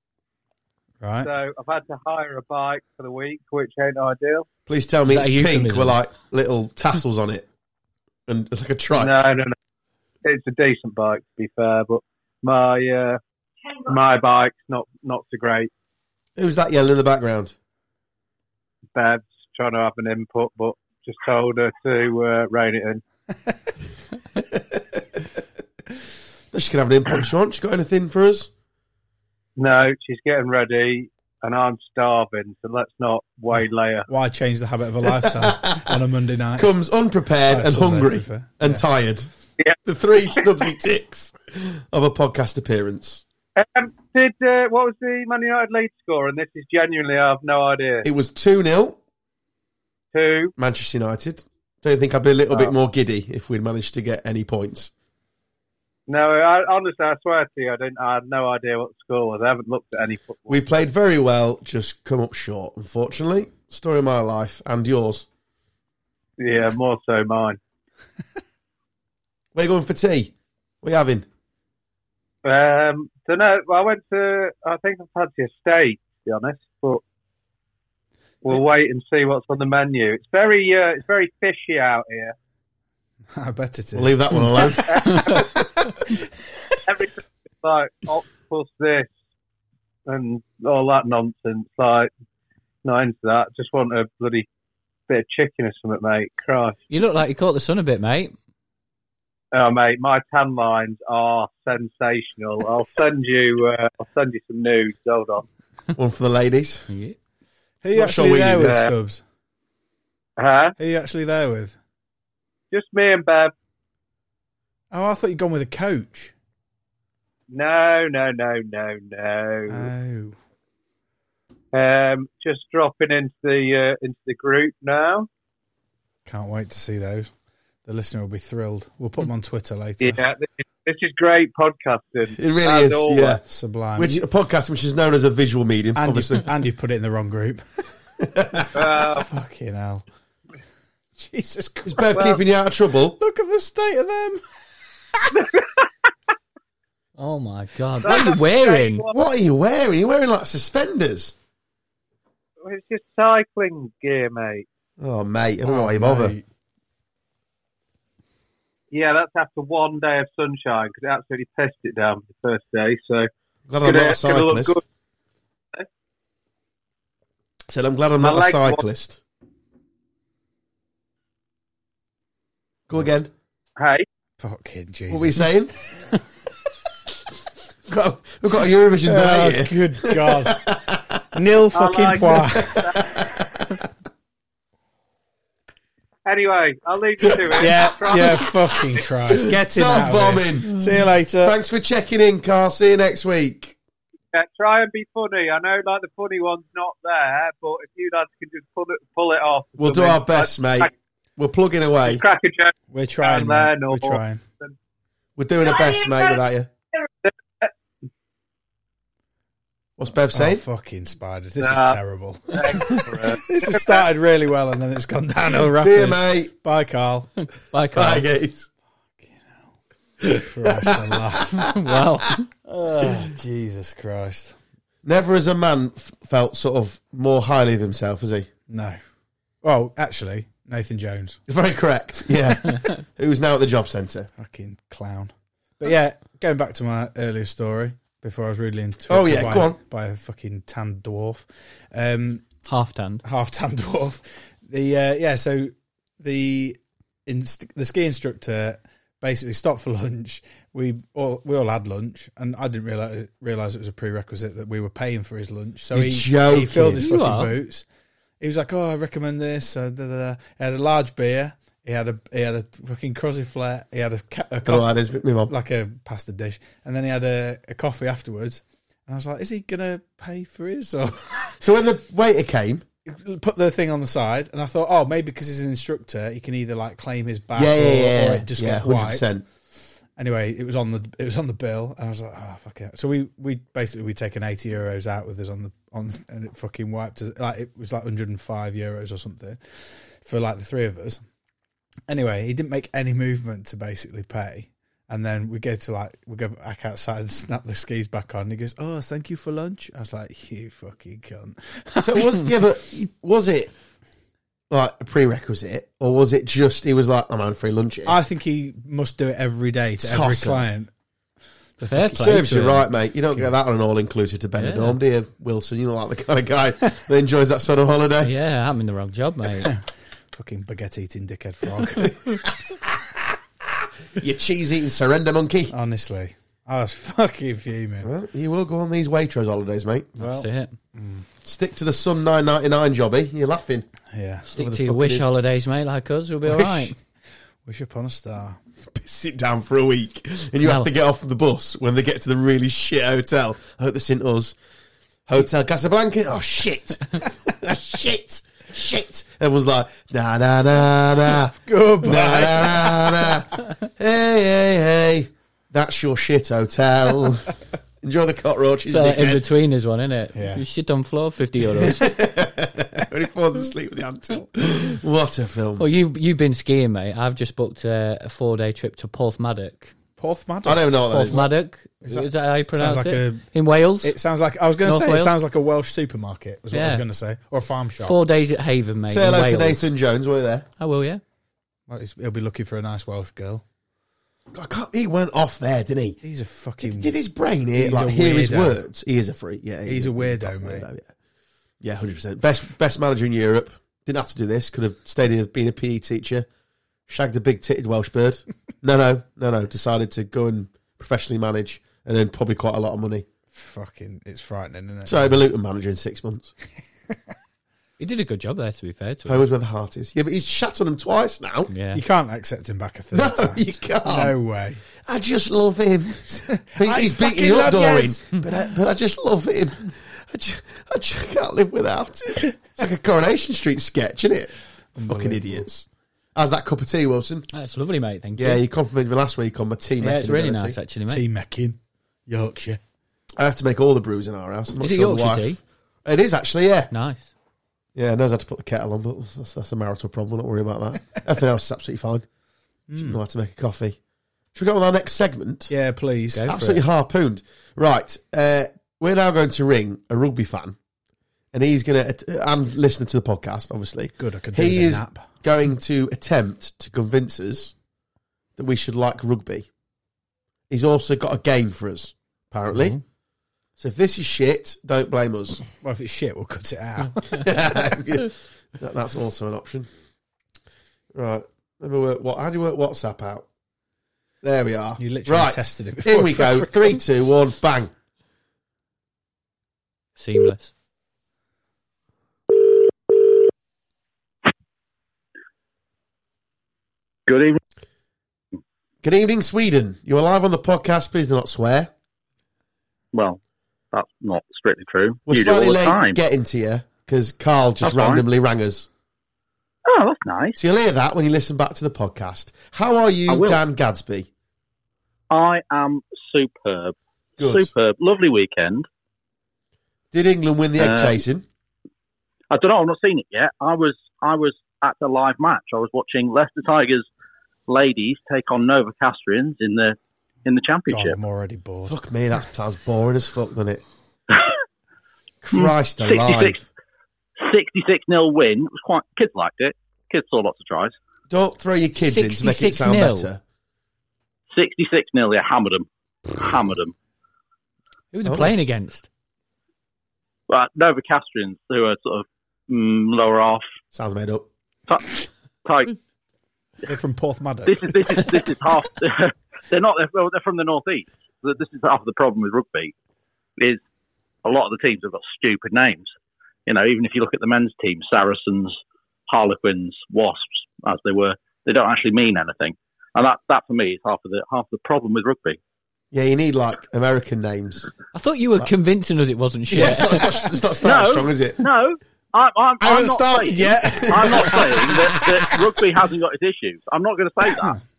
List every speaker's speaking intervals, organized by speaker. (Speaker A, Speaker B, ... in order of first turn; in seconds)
Speaker A: 1.0-1.3, 34.1-36.7, 37.5-38.8, 83.3-86.2, 107.8-109.2, 110.8-111.8, 114.9-116.3, 119.7-120.3, 126.2-127.3, 127.8-130.2, 133.4-134.2, 135.9-137.6, 138.6-140.1, 141.2-142.3, 143.2-144.4, 155.6-156.4, 174.4-175.5, 179.0-180.7, 181.3-182.9, 187.6-191.5, 202.9-204.4, 210.3-217.4, 219.2-219.7, 220.4-221.6, 222.6-224.6, 228.7-229.0, 229.6-231.4, 234.4-242.5, 243.2-257.9, 258.4-264.9, 265.5-271.6, 273.1-279.3, 280.2-291.2, 292.1-302.5, 308.1-310.9, 311.8-312.6, 320.3-322.1, 325.7-328.1, 330.2-331.2, 334.1-334.9, 336.5-336.9, 337.6-338.6, 351.5-353.3, 360.3-360.6, 370.2-371.6, 372.1-378.2, 381.9-383.6, 386.2-387.1, 387.8-388.8, 389.9-390.9, 403.5-405.4, 411.9-414.8, 416.7-418.2, 424.9-425.6, 431.1-432.8, 442.9-443.2, 445.7-446.6, 454.2-455.3, 465.8-467.7, 475.0-477.0, 520.9-521.9, 546.8-548.5, 573.4-575.6, 577.5-577.8
Speaker B: 1.2-4.5, 8.9-9.6, 10.2-13.2, 13.8-15.7, 18.9-23.0, 29.6-34.1, 39.6-40.4, 43.5-48.1, 50.1-50.5, 56.1-60.8, 66.4-67.6, 72.4-77.0, 78.4-82.3, 84.9-85.5, 86.9-89.1, 90.1-92.1, 92.8-94.5, 95.1-96.8, 99.5-105.4, 110.4-110.8, 112.7-113.5, 117.5-119.9, 121.7-125.3, 130.0-133.4, 138.7-139.3, 145.3-145.8, 148.0-149.2, 152.6-154.7, 158.9-163.3, 163.8-164.8, 168.2-168.8, 173.8-174.0, 181.7-183.0, 186.2-189.0, 194.3-200.9, 202.0-204.7, 207.2-207.7, 211.6-212.0, 212.5-214.0
Speaker C: 4.7-7.5, 8.3-9.2, 16.4-17.5, 24.5-25.0, 26.5-28.5, 35.1-35.9, 36.5-39.3, 39.8-43.2, 48.0-49.0, 50.6-54.9, 60.5-65.2, 69.5-71.3, 83.9-85.2, 106.0-106.9, 107.9-108.9, 132.4-133.4, 133.9-136.5, 138.2-138.7, 141.9-143.2, 149.1-151.3, 155.0-156.4, 163.7-164.8, 167.7-169.2, 172.9-173.3, 175.1-175.7, 177.9-181.2, 182.4-183.6, 189.3-190.8, 191.4-193.8, 199.8-202.2, 205.4-206.7, 210.0-210.6, 215.8-216.5, 217.9-218.7, 220.2-221.7, 225.0-228.5, 231.5-234.3, 239.1-239.8, 255.9-257.1, 264.6-265.5, 271.6-272.8, 277.6-279.4, 302.0-303.7, 304.7-308.1, 310.0-310.6, 312.1-318.3, 324.2-325.7, 328.0-330.2, 331.4-333.9, 334.6-335.2, 338.9-344.6, 345.3-357.5, 358.0-359.4, 362.0-365.9, 370.6-371.4, 379.1-380.6, 384.5-386.2, 386.8-391.1, 391.8-396.5, 397.1-403.2, 405.1-406.5, 409.2-411.7, 413.1-414.3, 415.0-427.5, 428.4-430.8, 433.4-436.9, 437.9-442.2, 443.0-444.0, 444.5-445.7, 446.4-450.8, 451.5-457.7, 458.6-459.7, 460.7-463.0, 463.8-465.6, 467.3-469.9, 471.1-473.4, 474.4-477.9, 489.0-491.9, 495.3-498.9, 500.6-504.3, 507.4-507.7, 510.1-511.4, 521.9-523.8, 525.4-526.6, 531.3-533.4, 538.2-538.5, 543.9-544.5, 566.1-567.9, 569.7-571.6, 572.8-575.2
Speaker D: 5.0-6.0, 96.9-98.3, 106.9-107.2, 147.2-149.1, 217.6-218.3, 221.6-222.5, 242.6-243.2, 257.0-257.5, 311.8-312.9, 314.6-315.0, 318.2-319.7, 330.2-330.8, 334.5-336.9, 340.6-340.9, 358.9-362.1, 365.8-370.0, 371.1-374.2, 374.8-375.4, 376.7-377.1, 378.0-379.9, 380.8-381.2, 408.0-409.4, 411.7-412.0, 427.5-428.6, 430.0-431.2, 434.8-435.6, 436.9-437.3, 446.3-446.8, 480.2-480.7, 532.0-533.3, 538.1-539.1, 568.1-570.3
Speaker E: 487.3-487.6, 493.1-493.4, 493.9-496.2, 497.8-498.2, 499.9-500.6, 503.3-503.6, 505.3-506.9, 507.5-508.9, 510.8-511.2, 512.5-517.1, 517.7-521.2, 524.3-524.6, 525.5-526.6, 527.4-530.9, 534.5-536.9, 540.5-543.6, 544.9-546.0, 547.6-552.9, 554.4-556.1, 556.7-565.6, 570.8-577.8